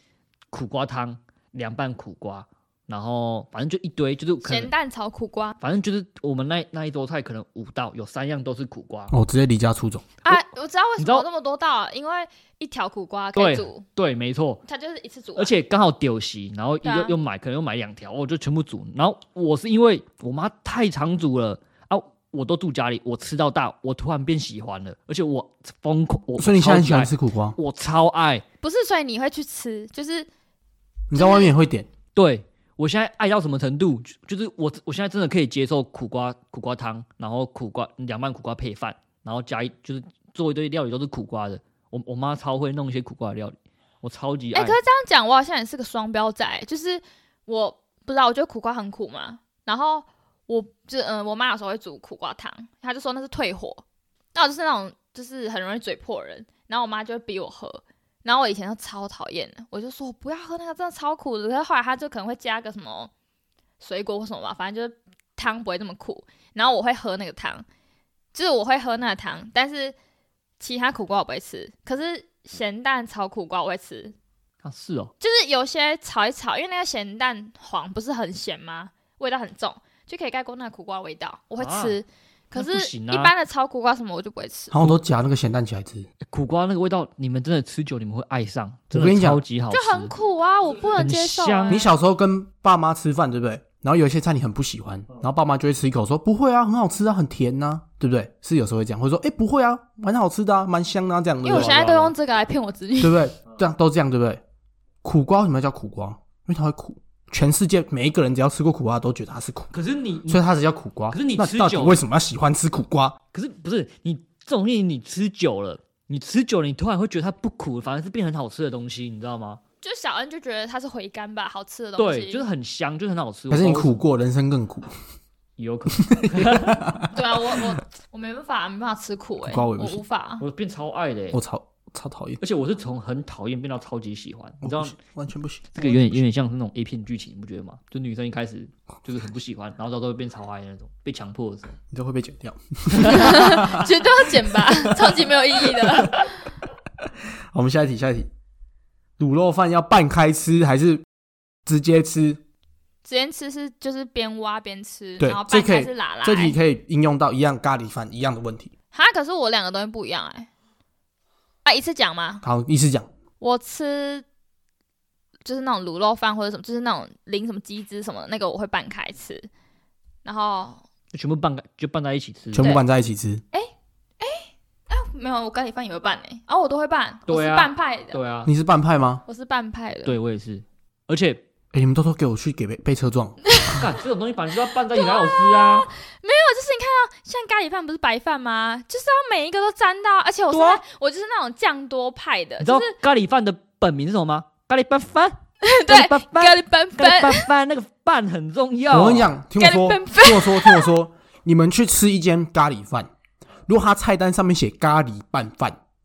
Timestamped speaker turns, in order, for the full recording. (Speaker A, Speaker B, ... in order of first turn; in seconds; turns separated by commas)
Speaker A: 0.5-4.7, Speaker B: 4.4-5.6, Speaker A: 5.6-9.1, Speaker C: 9.1-10.1, Speaker B: 10.2-13.9, Speaker A: 11.0-11.2, Speaker A: 13.4-14.6, Speaker B: 14.6-15.5, Speaker A: 15.4-28.4, Speaker B: 16.8-17.1, Speaker C: 26.4-27.6, Speaker B: 28.6-30.3, Speaker C: 31.1-31.9, Speaker B: 31.1-31.5, Speaker A: 32.1-44.8, Speaker B: 44.5-53.8, Speaker B: 54.4-63.1, Speaker B: 63.8-67.6, Speaker B: 68.3-69.9, Speaker B: 70.6-74.1, Speaker A: 74.6-75.1, Speaker B: 75.2-84.8, Speaker A: 81.6-82.0, Speaker A: 82.5-83.3, Speaker C: 84.7-86.1, Speaker A: 86.3-90.1, Speaker C: 88.9-89.4, Speaker B: 89.7-91.9, Speaker A: 91.0-91.9, Speaker C: 91.7-102.1, Speaker B: 101.4-103.3, Speaker A: 101.5-102.1, Speaker C: 103.0-104.4, Speaker C: 105.0-109.7, Speaker A: 109.7-110.5, Speaker C: 110.3-113.2, Speaker A: 111.1-112.0, Speaker A: 113.3-119.6, Speaker B: 119.8-122.4, Speaker A: 122.0-124.0, Speaker C: 123.5-124.9, Speaker A: 125.6-126.9, Speaker C: 125.9-127.6, Speaker B: 127.1-130.4, Speaker C: 129.4-130.0, Speaker A: 130.4-131.4, Speaker C: 131.3-132.4, Speaker A: 132.4-135.0, Speaker C: 134.6-136.2, Speaker A: 135.8-141.8, Speaker C: 141.9-143.9, Speaker A: 143.0-143.2, Speaker B: 143.0-146.3, Speaker C: 144.8-146.2, Speaker C: 147.5-148.3, Speaker C: 149.2-151.0, Speaker C: 151.7-152.4, Speaker B: 153.0-156.6, Speaker C: 155.2-158.7, Speaker B: 158.9-160.5, Speaker B: 161.6-162.4, Speaker C: 162.4-163.1, Speaker B: 163.4-164.2, Speaker B: 165.4-169.5, Speaker B: 170.2-170.8, Speaker A: 171.1-172.7, Speaker C: 172.5-173.4, Speaker B: 173.5-178.2, Speaker A: 177.3-178.5, Speaker C: 178.4-179.2, Speaker B: 179.2-180.2, Speaker A: 180.1-181.4, Speaker C: 181.7-183.4, Speaker B: 183.5-183.8, Speaker A: 183.7-185.9, Speaker B: 184.9-192.9, Speaker A: 190.5-190.8, Speaker A: 192.6-199.3, Speaker B: 195.6-197.5, Speaker C: 198.9-203.1, Speaker B: 199.6-200.9, Speaker C: 203.7-205.8